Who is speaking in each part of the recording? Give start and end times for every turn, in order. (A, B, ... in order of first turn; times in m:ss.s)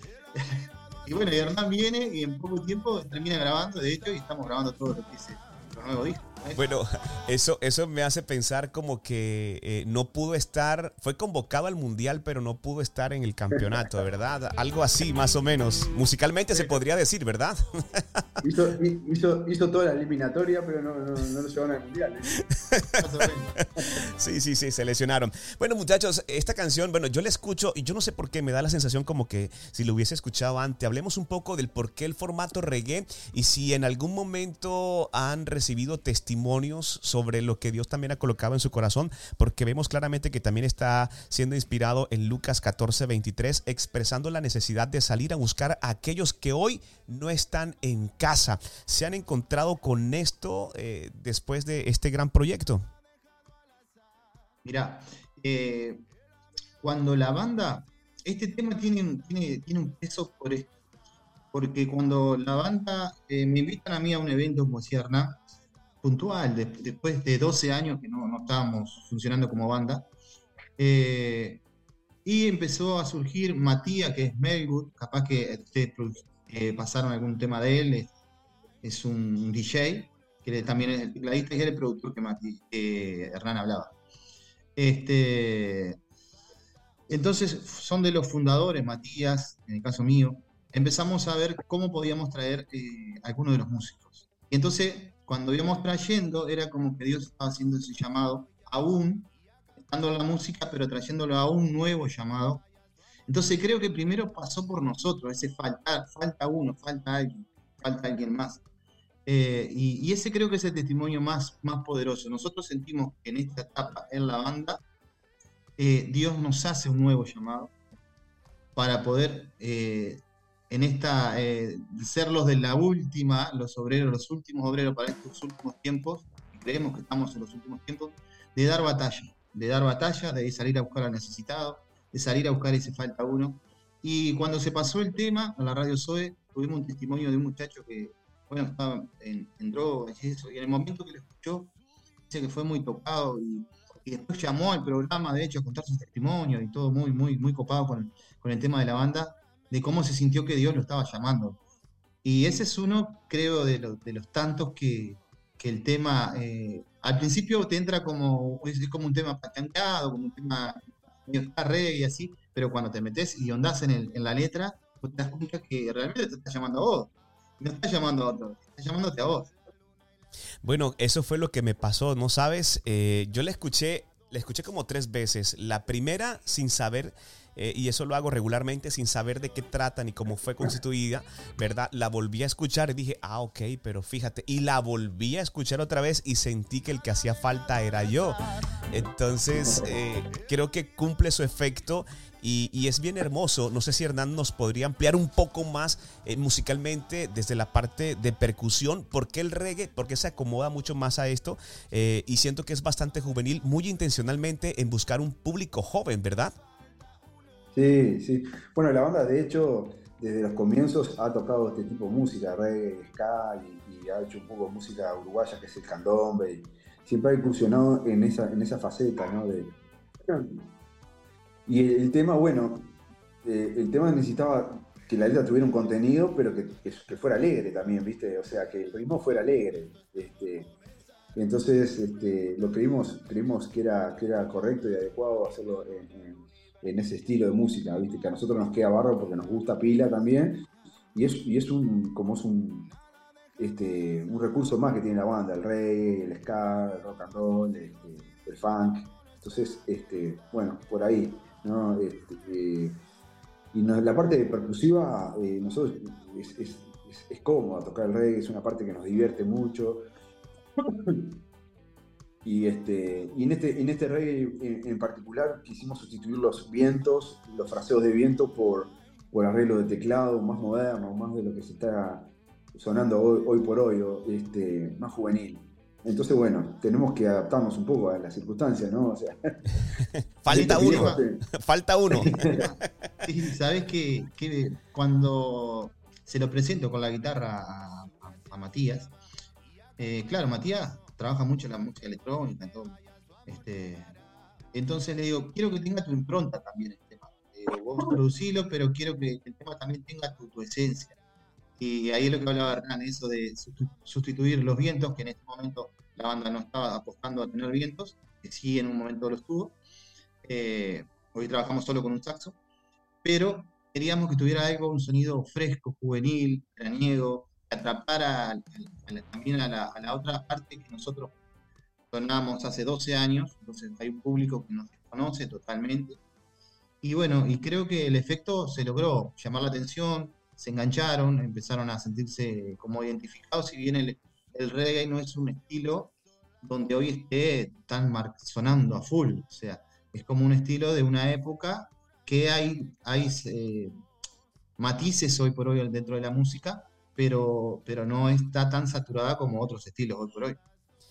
0:00.4-0:06.6 A
0:06.6-0:18.2 B
0:16.5-0:16.8 A
0:18.4-0:22.4 C
0:22.4-0:23.0 B
0:23.0-0:23.5 A
0:23.8-0:52.8 B
0:54.6-0:56.0 A
0:56.8-1:00.7 A
1:01.5-1:05.4 A
1:06.0-1:10.1 A
1:10.8-1:11.6 A
1:12.2-1:18.1 A
1:18.8-1:24.0 A
1:24.8-1:26.0 A
1:27.1-1:42.7 A
1:43.3-1:48.6 A
1:49.3-1:54.8 A
1:55.8-1:57.7 A
1:58.8-2:21.7 A
2:22.3-2:31.6 A
2:32.2-2:49.5 A
2:50.6-3:08.4 B
3:08.9-3:26.5 B
3:09.5-3:09.9 C
3:27.7-3:39.7 C
3:40.3-3:40.6 C
3:41.7-3:42.9 C
3:43.4-3:50.7 C
3:51.4-4:00.6 C
4:01.2-4:02.9 C
4:03.6-4:13.0 C
4:13.7-4:20.0 C
4:21.0-4:21.3 C
4:22.4-4:39.4 C
4:40.4-4:42.4 B
4:40.5-4:41.4 C
4:40.5-4:41.2 A
4:42.1-4:42.6 C
4:42.2-4:49.1 A
4:50.0-4:54.1 A
4:54.7-5:01.2 A
5:01.8-5:09.8 A
5:10.4-5:12.6 A
5:13.2-5:21.3 A
5:22.1-5:26.2 A
5:27.0-5:43.9 A
5:44.8-5:50.6 A